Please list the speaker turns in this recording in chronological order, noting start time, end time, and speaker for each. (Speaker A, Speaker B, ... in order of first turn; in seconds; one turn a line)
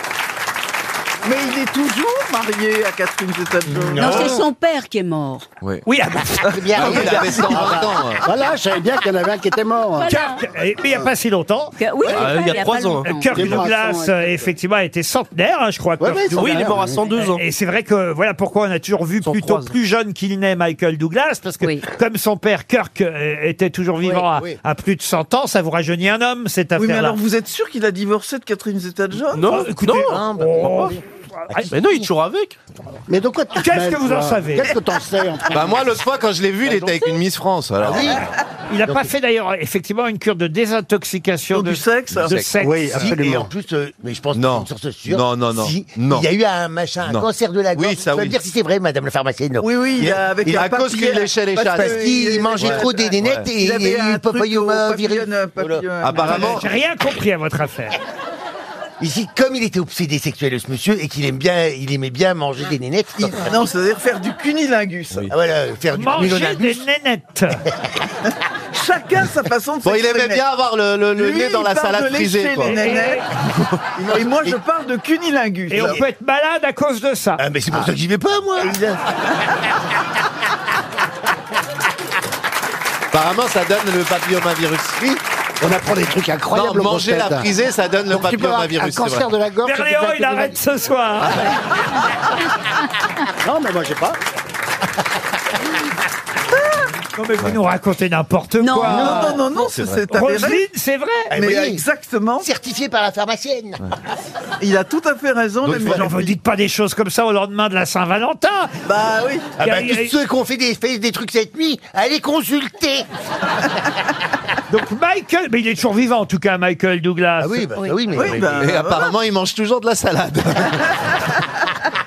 Speaker A: 1.2-4.3
Speaker B: 3.9-4.4
Speaker C: 4.0-5.5
Speaker D: 5.9-7.1
Speaker B: 6.4-7.9
Speaker E: 6.7-8.3
Speaker F: 7.5-10.2
Speaker C: 10.0-10.4
Speaker D: 10.1-11.8
Speaker F: 10.8-11.1
Speaker C: 11.8-14.1
Speaker G: 12.1-13.2
Speaker D: 13.0-27.2
Speaker F: 13.3-14.1
Speaker F: 16.0-17.0
Speaker G: 16.3-17.4
Speaker G: 19.2-19.7
Speaker C: 21.6-21.9
Speaker A: 26.8-29.6
Speaker G: 29.3-30.7
Speaker D: 29.5-31.7
Speaker B: 30.1-32.1
Speaker G: 31.7-32.6
Speaker F: 33.1-35.9
Speaker D: 33.5-34.8
Speaker E: 35.5-38.2
Speaker B: 37.8-38.3
Speaker D: 38.7-43.1
Speaker B: 38.8-39.1
Speaker A: 41.5-42.4
Speaker E: 42.1-42.5
Speaker F: 42.6-43.5
Speaker B: 43.0-50.7
Speaker E: 44.4-46.3
Speaker E: 47.0-48.4
Speaker A: 49.6-56.7
Speaker E: 50.0-53.5
Speaker B: 51.7-56.4
Speaker E: 56.0-56.6
Speaker D: 56.2-58.0
Speaker B: 59.0-63.6
Speaker A: 63.2-65.3
Speaker B: 65.3-66.8
Speaker D: 66.0-67.6
Speaker A: 68.7-70.5
Speaker E: 69.8-72.9
Speaker A: 71.1-73.2
Speaker D: 72.6-73.3
Speaker A: 74.0-76.0
Speaker B: 74.0-74.6
Speaker D: 75.7-77.4
Speaker B: 77.4-79.0
Speaker E: 83.1-85.0
Speaker F: 85.6-87.5
Speaker E: 86.5-89.3
Speaker F: 88.1-90.6
Speaker D: 89.6-91.5
Speaker F: 93.4-94.2
Speaker D: 97.2-99.4
Speaker C: 98.6-99.4
Speaker B: 98.9-99.4
Speaker A: 98.9-100.6
Speaker E: 99.5-100.0
Speaker D: 100.1-101.3
Speaker B: 101.3-101.8
Speaker A: 101.3-102.5
Speaker B: 102.4-103.8
Speaker A: 104.6-106.3
Speaker E: 105.6-106.1
Speaker D: 105.8-108.7
Speaker A: 108.8-109.5
Speaker B: 109.6-113.1
Speaker D: 109.6-110.1
Speaker D: 114.7-117.7
Speaker B: 117.4-118.6
Speaker C: 117.8-118.3
Speaker A: 118.1-119.1
Speaker E: 118.4-120.9